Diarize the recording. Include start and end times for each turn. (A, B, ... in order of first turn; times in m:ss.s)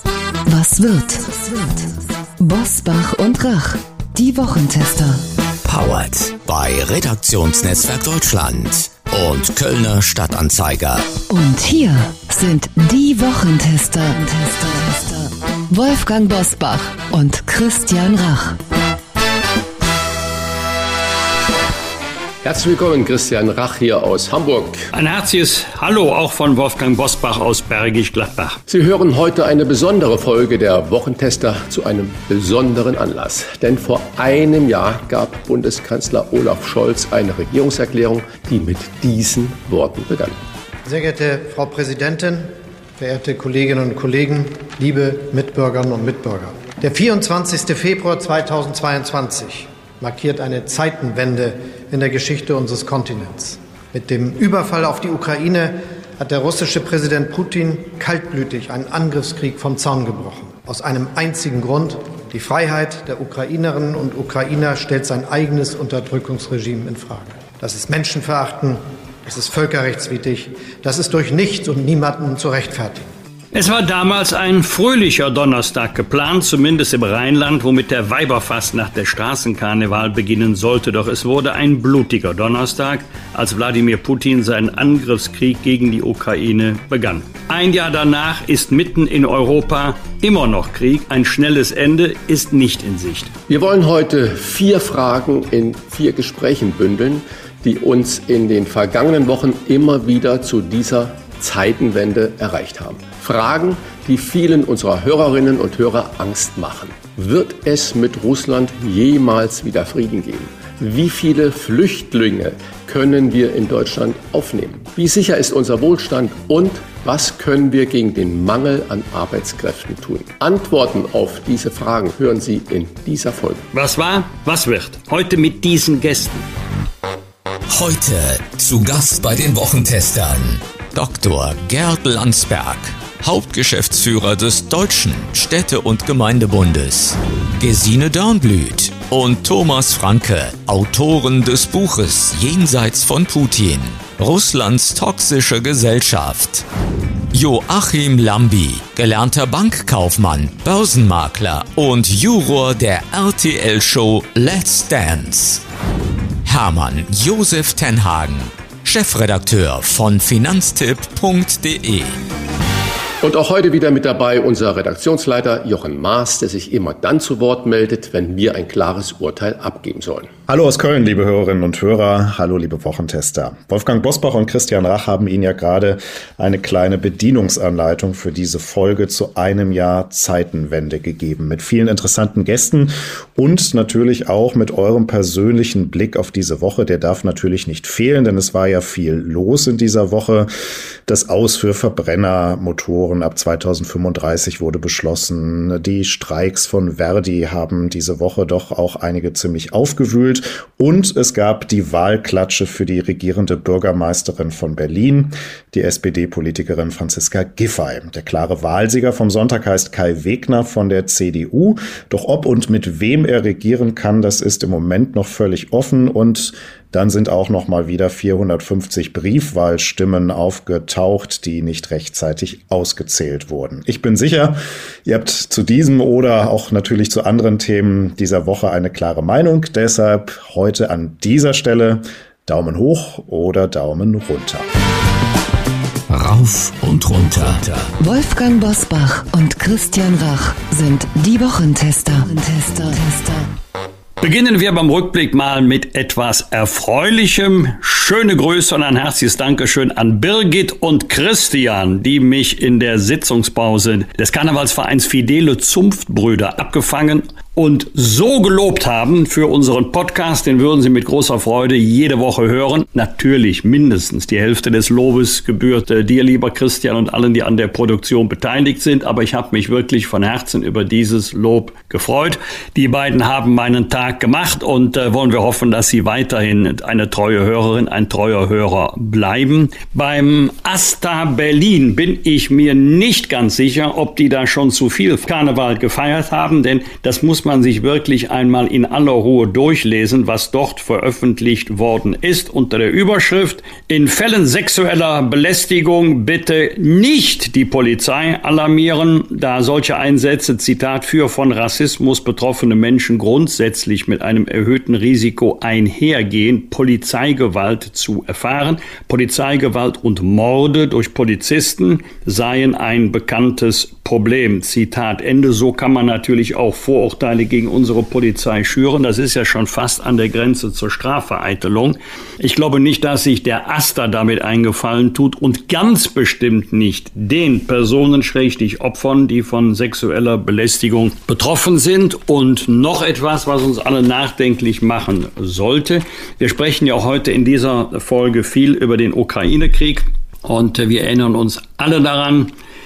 0:00.5-0:05.2 A
0:05.6-0:11.1 B
0:11.3-0:18.6 A
0:22.4-0:24.9 C
0:24.9-0:28.6 D
0:28.7-0:40.4 C
0:40.8-1:13.1 E
1:13.5-1:33.3 D
1:33.5-2:03.6 C
2:03.7-2:06.4 D
2:07.7-2:26.6 B
2:27.3-2:35.6 B
2:36.4-2:42.2 B
2:43.2-2:50.3 C
2:50.5-3:10.5 F
3:11.1-3:54.7 F
3:56.1-3:57.9 B
3:58.0-4:03.5 A
4:04.2-5:42.5 D